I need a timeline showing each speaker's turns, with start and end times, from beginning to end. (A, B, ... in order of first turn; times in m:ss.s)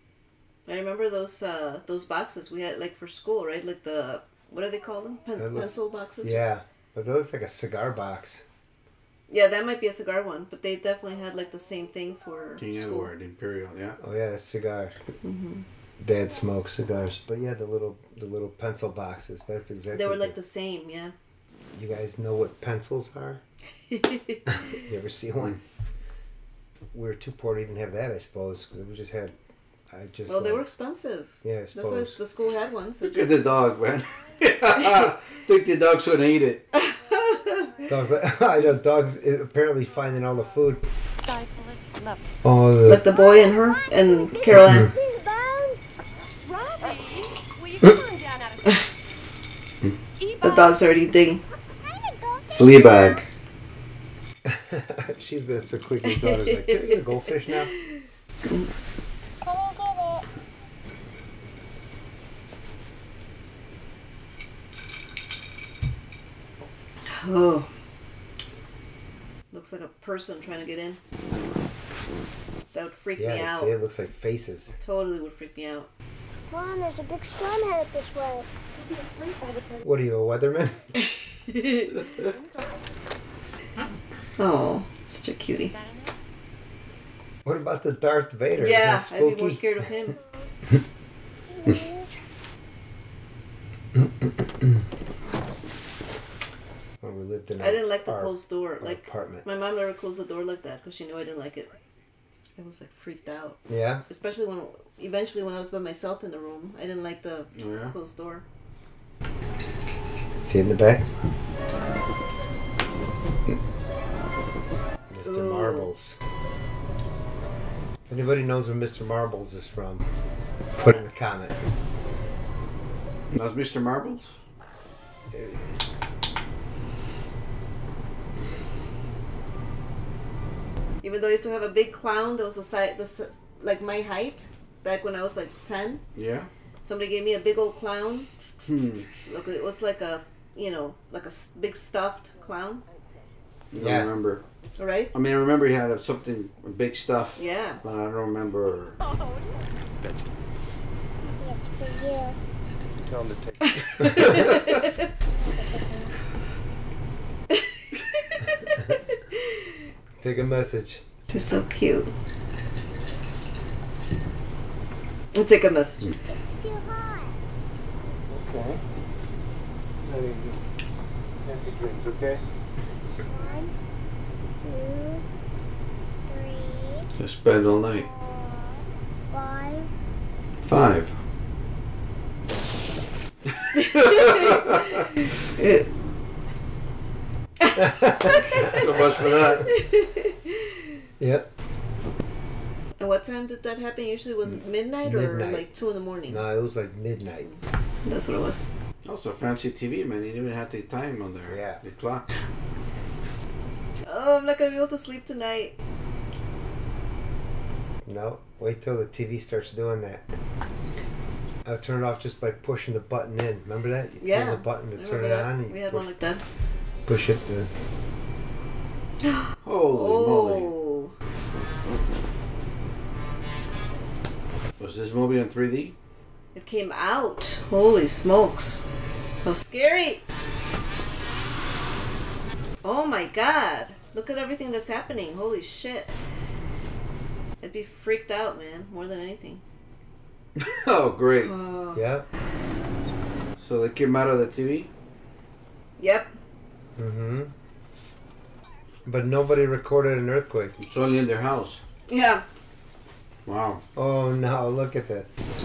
0:00.7-0:06.4 A
0:05.4-0:08.4 B
0:09.3-0:13.1 A
0:12.6-0:14.0 C
0:14.0-0:15.0 B
0:15.2-0:15.6 A
0:16.0-0:20.4 B
0:19.9-0:21.1 A
0:21.7-0:23.4 B
0:23.9-0:24.8 A
0:24.5-0:25.6 B
0:26.9-0:29.4 B
0:29.9-0:30.6 B
0:30.3-0:33.6 A
0:31.4-0:32.2 B
0:33.0-0:36.6 C
0:36.7-0:37.8 A
0:37.9-0:40.8 B
0:41.2-0:42.4 D
0:42.4-0:43.0 B
0:42.9-0:44.9 A
0:43.2-0:45.8 E
0:44.5-0:44.9 B
0:46.4-0:48.9 D
0:50.2-0:50.8 D
0:50.4-0:51.4 A
0:51.8-0:53.2 E
0:52.6-0:53.2 C
0:54.4-0:57.7 B
0:56.0-0:57.0 A
0:57.8-0:58.7 A
0:59.4-1:00.2 E
1:07.1-1:07.7 A
1:09.5-1:11.0 A
1:12.7-1:13.8 A
1:13.2-1:14.8 B
1:14.8-1:15.9 A
1:16.5-1:19.9 E
1:19.8-1:21.1 B
1:21.0-1:22.0 A
1:22.1-1:22.9 D
1:24.4-1:25.7 A
1:25.7-1:26.1 D
1:27.4-1:29.9 B
1:28.6-1:30.2 A
1:31.5-1:32.1 E
1:34.0-1:34.7 B
1:37.0-1:39.4 B
1:37.6-1:41.7 A
1:42.6-1:48.4 A
1:43.7-1:44.0 B
1:47.6-1:47.9 C
1:50.4-1:51.1 B
1:55.1-1:56.2 B
1:55.2-1:55.9 A
1:58.1-2:00.1 B
2:00.8-2:01.6 B
2:03.3-2:04.4 C
2:05.3-2:05.6 B
2:11.0-2:16.0 A
2:16.2-2:16.5 C
2:16.8-2:22.8 A
2:18.7-2:19.0 C
2:23.7-2:24.4 C
2:23.8-2:24.1 B
2:24.8-2:25.1 A
2:25.1-2:29.0 C
2:27.4-2:27.8 A
2:31.4-2:32.4 E
2:33.0-2:34.0 F
2:33.6-2:35.1 A
2:34.3-2:34.6 E
2:35.4-2:36.1 E
2:37.5-2:39.7 A
2:40.2-2:41.0 B
2:41.3-2:42.1 A
2:45.3-2:46.1 A
2:46.3-2:47.4 E
2:48.3-2:48.8 F
2:50.0-2:50.6 F
2:51.4-2:52.4 F
2:53.2-2:53.7 E
2:54.6-2:55.2 E
2:56.3-2:57.1 E
2:57.2-2:58.1 C
2:57.9-2:59.9 E
3:00.7-3:01.2 C
3:03.7-3:04.8 A
3:03.8-3:05.1 C
3:05.6-3:05.9 A
3:07.6-3:10.8 A
3:07.8-3:09.6 B
3:08.6-3:09.7 C
3:11.2-3:11.5 B
3:13.0-3:16.4 A
3:15.0-3:15.7 B
3:16.3-3:17.5 B
3:17.4-3:18.7 A
3:19.0-3:22.4 C
3:21.5-3:21.8 B
3:24.1-3:25.7 A
3:28.0-3:30.2 B
3:31.6-3:36.1 B
3:34.2-3:36.4 A
3:37.1-3:37.7 B
3:39.3-3:41.1 A
3:39.6-3:40.7 C
3:44.8-3:46.0 C
3:46.6-3:48.9 A
3:49.4-3:50.2 A
3:52.8-3:56.1 A
3:57.6-3:59.6 A
4:00.6-4:01.5 C
4:01.4-4:02.0 A
4:01.9-4:02.3 B
4:03.6-4:04.9 C
4:06.0-4:06.3 A
4:07.0-4:07.5 B
4:09.1-4:10.8 B
4:10.8-4:11.8 C
4:12.1-4:12.4 A
4:13.5-4:13.8 C
4:14.0-4:15.3 B